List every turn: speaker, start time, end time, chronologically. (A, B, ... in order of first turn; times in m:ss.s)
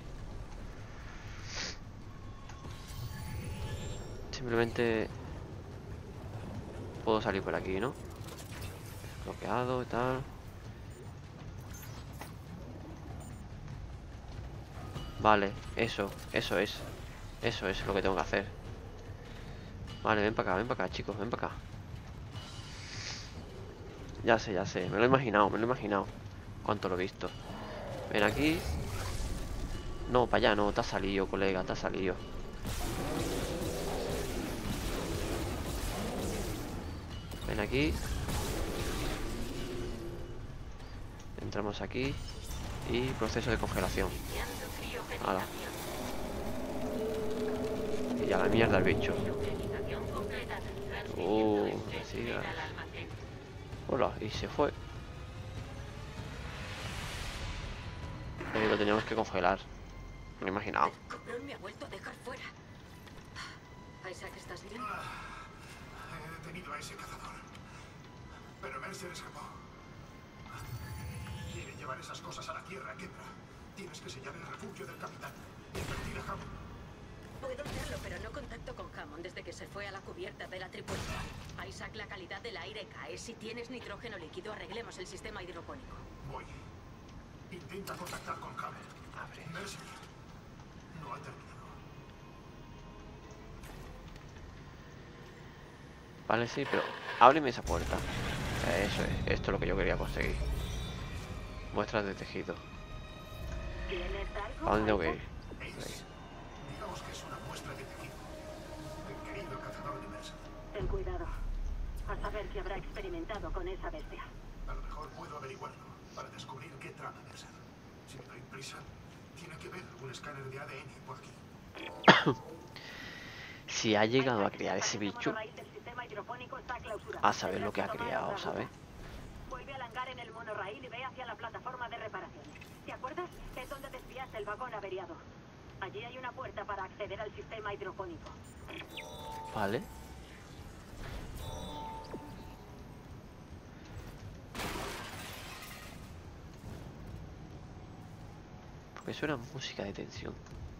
0:04.3-0:05.1 A
0:07.0-0:08.0 A
0:09.1-0:10.3 A
0:15.2-0:16.9 A
0:17.4-0:18.5 A
0:20.0-0:21.6 A
0:24.2-0:26.1 A
0:26.6-0:27.4 A
0:28.1-0:28.7 A
0:30.0-0:32.2 A
0:37.5-0:38.0 A
0:41.4-0:42.2 A
0:42.8-0:44.2 A
0:44.1-0:45.8 B
0:45.2-0:45.5 A
0:48.2-0:49.2 A
0:49.1-0:53.2 B
0:51.1-0:52.6 A
0:53.9-0:54.8 A
0:58.5-0:59.6 A
1:00.4-1:01.0 A
1:00.9-1:02.4 B
1:04.0-1:04.9 B
1:04.7-1:07.5 C
1:08.6-1:09.6 C
1:10.5-1:10.8 C
1:11.4-1:16.5 C
1:17.5-1:21.1 B
1:21.7-1:25.8 B
1:26.2-1:26.5 C
1:27.5-1:28.9 C
1:29.1-1:29.6 A
1:29.4-1:30.0 C
1:30.9-1:31.8 C
1:36.3-1:40.4 A
1:41.7-1:42.6 A
1:43.9-1:45.2 D
1:44.6-1:45.2 A
1:45.6-1:46.0 C
1:46.6-1:48.3 C
1:49.0-1:50.5 C
1:50.7-1:51.3 D
1:52.0-1:54.2 D
1:54.6-2:01.4 C
2:02.1-2:02.4 A
2:03.7-2:05.4 A
2:04.2-2:08.7 D
2:07.2-2:08.7 A
2:09.5-2:15.2 D
2:15.8-2:18.3 D
2:19.5-2:19.9 A
2:29.0-2:30.4 A